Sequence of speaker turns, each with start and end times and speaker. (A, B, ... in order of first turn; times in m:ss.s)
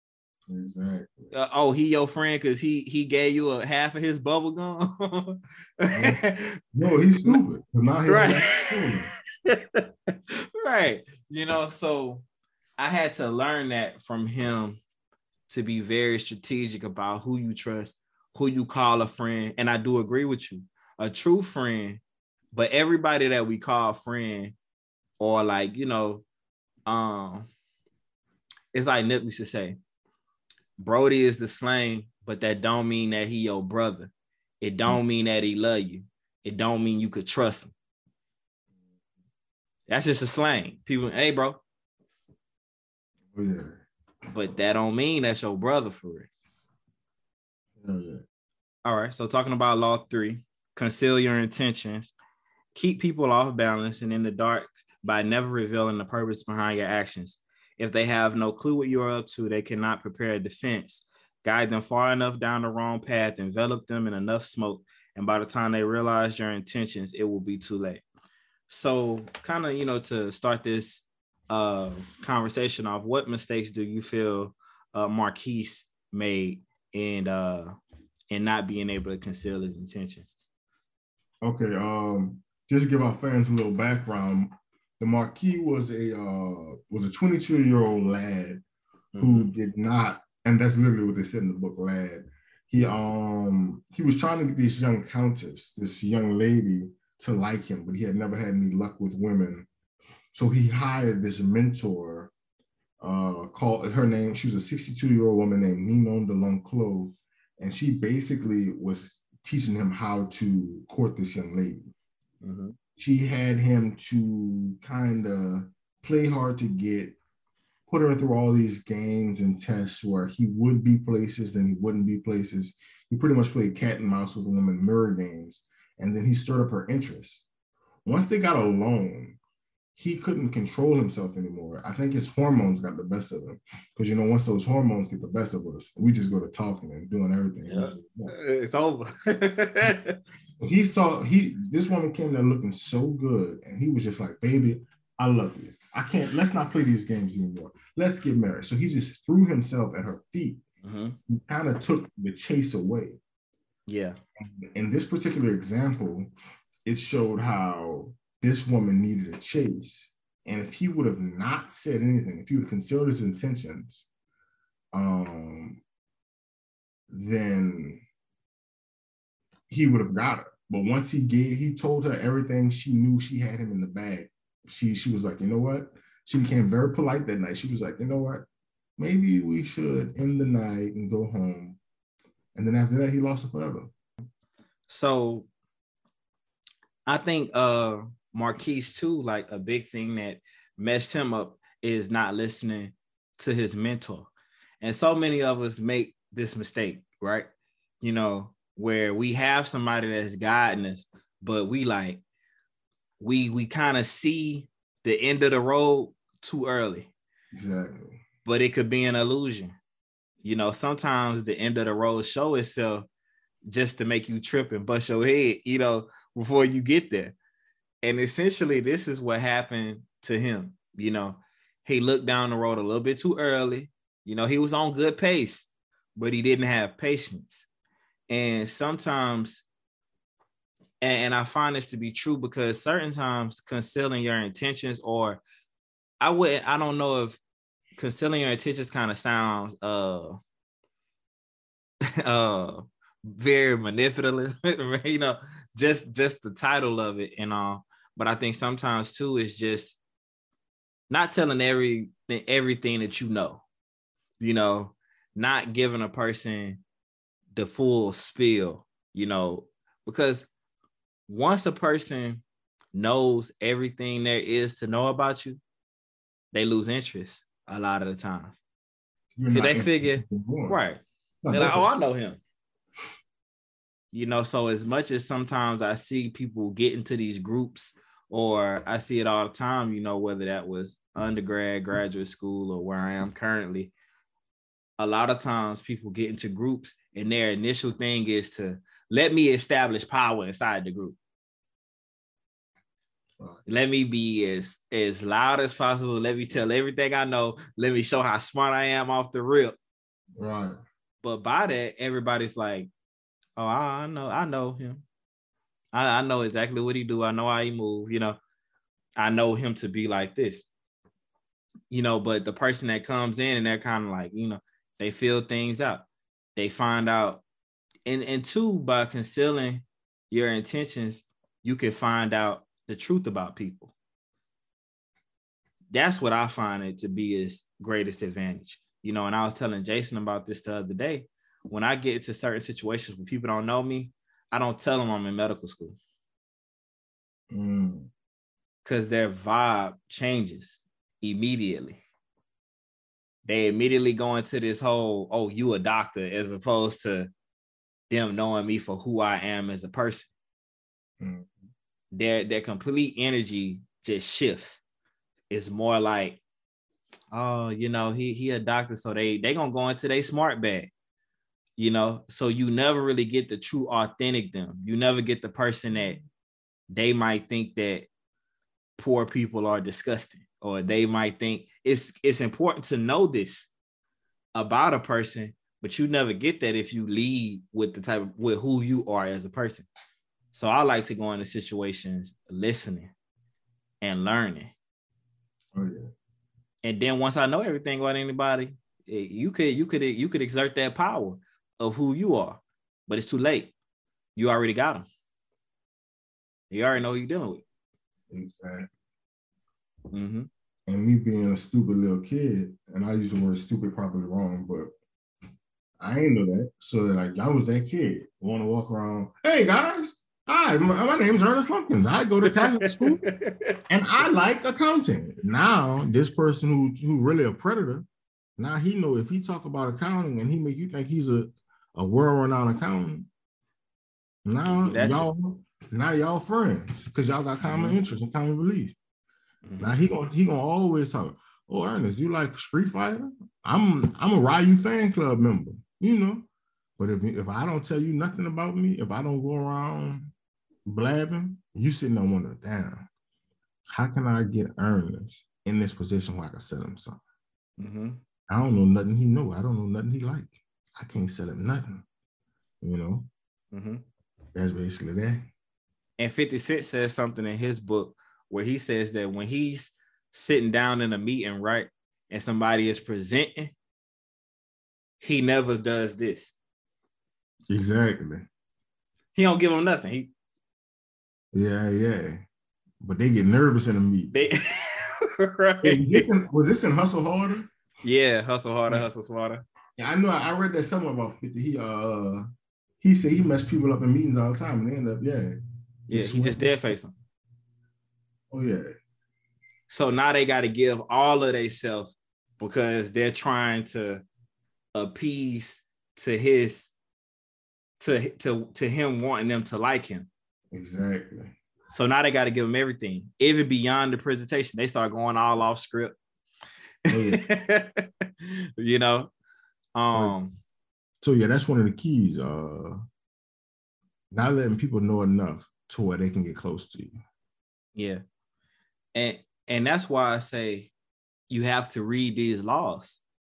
0:00.5-0:01.3 A
0:01.3-0:06.6 B
0:05.9-0:06.2 A
0:06.8-0:09.1 A
0:08.1-0:08.9 B
0:09.4-0:12.2 B
0:12.8-0:14.8 B
0:15.5-0:22.0 B
0:22.5-0:24.6 B
0:25.2-0:26.2 B
0:26.9-0:27.5 B
0:28.7-0:29.8 B
0:30.8-0:37.7 B
0:39.9-0:41.6 B
0:43.3-0:43.9 A
0:44.3-0:46.3 B
0:47.8-0:48.2 A
0:48.8-0:52.1 B
0:52.7-1:08.0 B
1:08.7-1:17.7 B
1:18.3-1:20.3 B
1:21.4-1:28.6 A
1:29.2-1:29.5 B
1:29.2-1:39.7 A
1:40.3-1:42.3 A
1:43.0-1:51.9 A
1:52.4-1:52.8 B
1:53.0-1:57.2 A
1:57.9-2:07.5 A
2:08.0-2:09.4 A
2:10.0-2:18.3 A
2:17.7-2:20.2 B
2:20.6-2:30.6 A
2:30.8-2:31.2 B
2:31.3-2:33.2 A
2:33.9-2:34.2 B
2:34.4-2:36.3 A
2:36.8-2:44.1 A
2:44.9-2:45.8 A
2:47.1-2:48.0 A
2:49.7-2:58.4 A
2:59.0-3:01.8 A
3:02.6-3:03.9 A
3:04.9-3:05.5 B
3:07.1-3:17.5 B
3:18.0-3:22.2 B
3:23.2-3:27.1 B
3:27.6-3:28.2 A
3:28.4-3:29.8 B
3:30.4-3:33.1 B
3:33.7-3:37.4 B
3:38.0-3:47.7 B
3:48.3-3:49.6 B
3:51.0-3:55.4 B
3:56.2-3:57.4 B
3:58.0-4:00.4 B
4:02.2-4:10.0 B
4:11.1-4:13.6 B
4:14.4-4:16.8 B
4:17.5-4:20.5 B
4:21.3-4:22.4 B
4:22.9-4:25.6 B
4:26.5-4:28.6 B
4:29.4-4:30.8 A
4:29.5-4:32.4 B
4:31.4-4:31.9 A
4:34.1-4:43.9 B
4:45.0-4:51.2 B
4:53.7-4:59.8 B
5:00.4-5:00.8 A
5:01.2-5:02.9 B
5:03.6-5:05.0 B
5:05.9-5:08.4 B
5:09.2-5:10.7 B
5:11.9-5:17.4 B
5:18.1-5:23.9 B
5:25.9-5:36.0 B
5:37.5-5:38.1 A
5:38.8-5:42.0 B
5:43.4-5:47.3 B
5:48.1-5:50.3 B
5:51.2-5:51.6 A
5:52.1-5:54.8 B
5:55.5-5:56.4 B
5:57.3-6:00.9 B
6:01.8-6:06.2 B
6:06.9-6:08.1 B
6:09.0-6:13.7 B
6:14.6-6:19.9 B
6:20.5-6:23.1 B
6:24.0-6:24.7 B
6:25.7-6:26.1 A
6:26.8-6:33.7 B
6:34.4-6:35.1 B
6:36.7-6:37.6 B
6:38.3-6:38.9 A
6:40.1-6:40.5 B
6:40.9-6:44.9 A
6:46.0-6:53.2 A
6:52.5-6:53.8 B
6:53.9-6:58.1 A
6:58.6-7:03.3 A
7:04.4-7:09.0 A
7:04.8-7:05.3 B
7:07.6-7:08.0 B
7:09.6-7:10.0 B
7:09.8-7:16.5 A
7:17.0-7:20.3 A
7:20.9-7:23.1 A
7:23.9-7:27.2 A
7:27.8-7:28.2 B
7:28.5-7:32.1 A
7:32.8-7:33.3 A
7:33.7-7:34.0 B
7:34.6-7:35.5 A
7:36.2-7:43.7 B
7:45.2-7:46.5 B
7:47.7-7:48.5 A
7:49.3-7:50.3 B
7:51.5-7:52.4 A
7:53.0-7:54.5 A
7:54.3-7:56.3 B
7:55.8-7:57.7 A
7:58.0-7:59.6 B
8:00.0-8:02.5 A
8:03.0-8:05.6 A
8:06.1-8:06.7 A
8:06.1-8:07.1 B
8:08.5-8:08.9 A
8:09.9-8:14.2 B
8:14.9-8:16.9 B
8:18.0-8:20.3 B
8:20.7-8:21.6 A
8:21.9-8:26.2 B
8:27.1-8:29.3 B
8:27.1-8:27.4 A
8:30.0-8:30.6 B
8:31.2-8:33.0 A
8:34.3-8:37.2 A
8:38.0-8:38.2 B
8:39.1-8:40.9 B
8:41.5-8:43.2 B